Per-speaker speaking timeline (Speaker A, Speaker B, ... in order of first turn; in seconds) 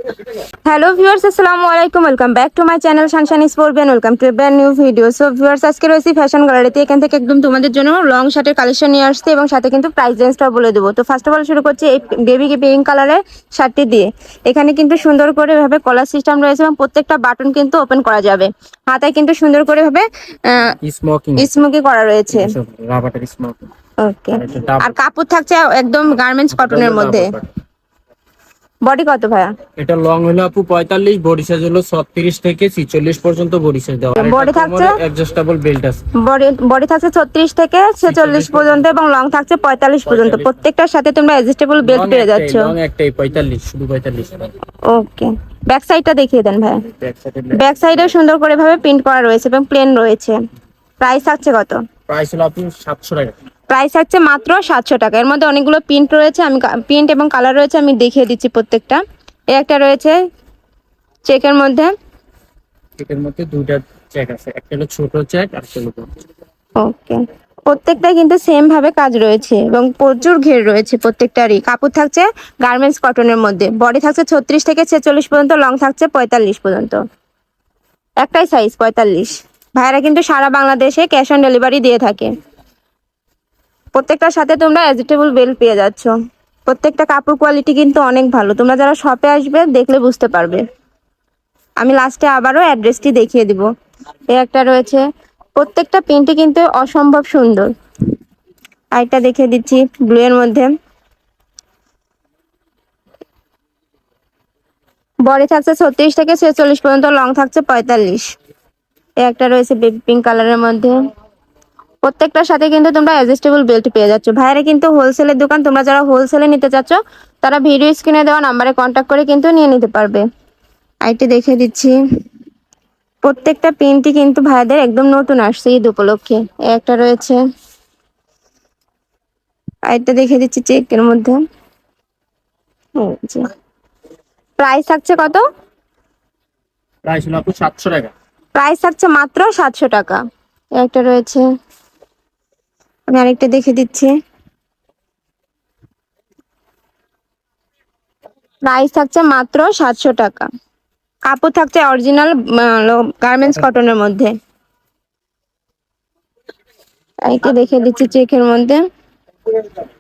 Speaker A: 0.7-20.7, 21.4-22.5, 24.0-27.3, 28.8-29.6, 34.2-35.0, 36.2-42.7, 44.9-46.9, 47.5-50.4, 51.0-51.8, 53.7-59.0, 59.5-60.2, 61.2-61.9, 66.8-77.0, 78.2-82.3, 83.9-86.1, 86.7-90.6, 91.8-93.7, 94.3-95.0, 95.6-97.7, 98.9-100.7, 105.2-108.3, 109.2-110.9, 112.0-120.2, 121.0-121.9, 123.2-127.4, 129.9-131.4, 133.0-133.5, 134.6-135.4, 138.6-140.2, 140.8-141.4, 143.1-144.1, 148.7-150.5, 151.3-154.3, 157.2-158.8
Speaker B: 20.8-21.5, 22.3-23.7, 24.4-24.9, 26.5-27.5, 29.8-36.0, 38.0-38.9, 40.1-40.6, 41.8-44.5, 46.9-48.1, 52.1-53.3, 63.0-66.1, 137.1-138.1